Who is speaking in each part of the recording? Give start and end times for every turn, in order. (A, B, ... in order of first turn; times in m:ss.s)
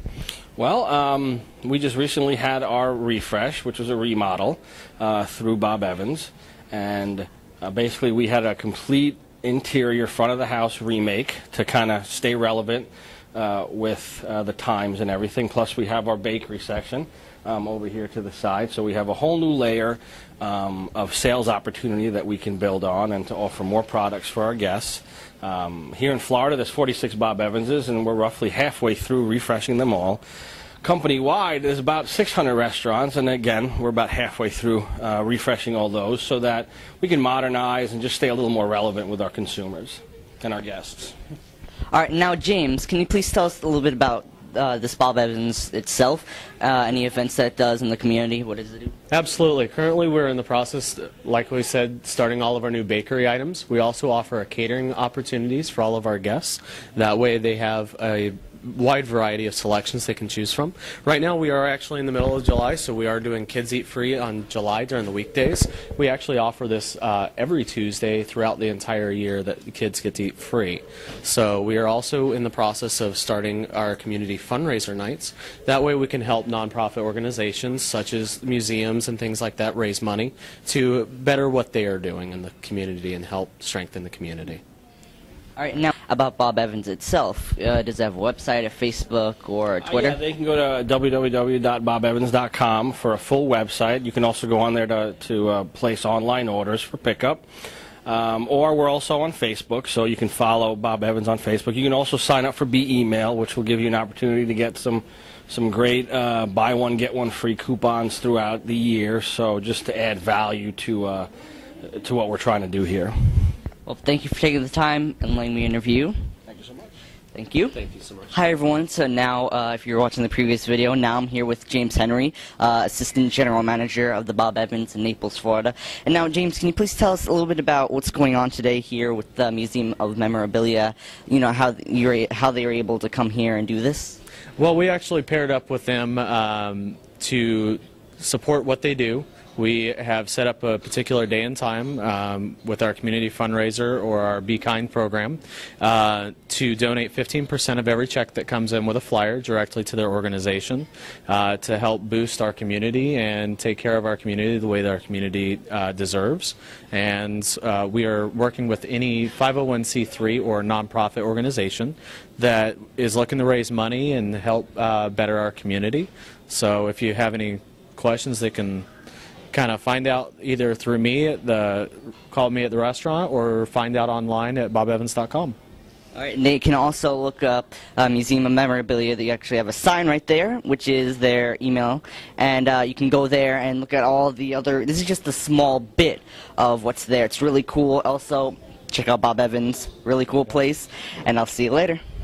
0:00.6-0:30.2 A
0:30.8-0:41.1 A
0:41.9-0:48.9 B
0:49.1-1:24.6 C
1:25.6-1:30.2 B
1:29.8-1:37.4 A
1:38.1-1:51.3 A
1:51.8-1:53.5 A
1:53.8-1:56.2 B
1:56.5-1:56.9 A
1:57.3-1:57.8 B
1:57.8-1:58.2 A
1:58.3-2:14.2 B
2:14.6-2:48.9 C
2:49.5-2:55.6 C
2:56.1-3:12.0 B